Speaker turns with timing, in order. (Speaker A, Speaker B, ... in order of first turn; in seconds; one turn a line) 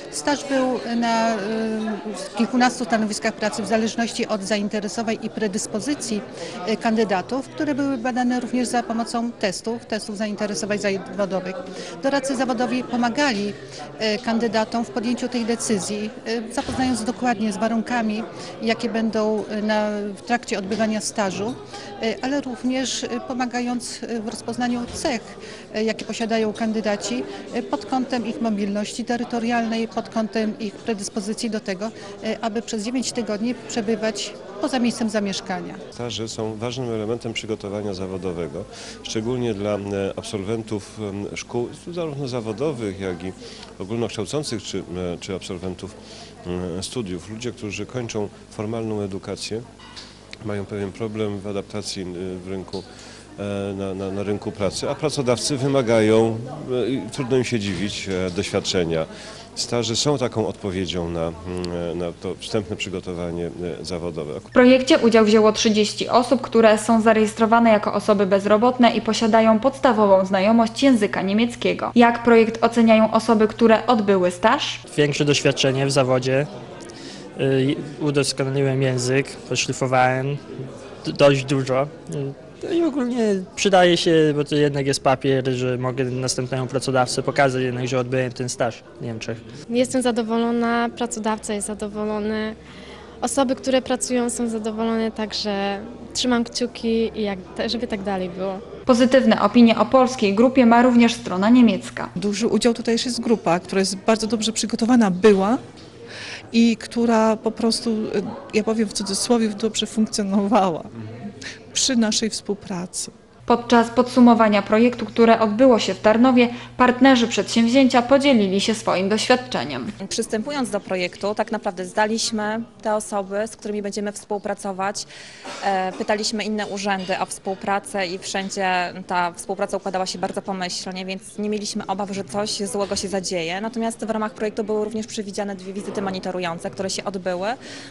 Speaker A: 0.1-35.8
Speaker B: 35.9-49.6
Speaker B: 50.4-52.8
Speaker B: 53.4-64.5
Speaker C: 64.5-74.8
Speaker D: 74.9-76.5
Speaker D: 77.3-89.4
Speaker E: 89.7-92.5
Speaker E: 93.2-98.6
Speaker C: 98.9-102.1
Speaker F: 102.2-105.6
Speaker F: 106.5-110.9
Speaker F: 111.7-113.1
Speaker C: 113.5-119.9
Speaker G: 120.0-125.1
Speaker G: 125.6-137.6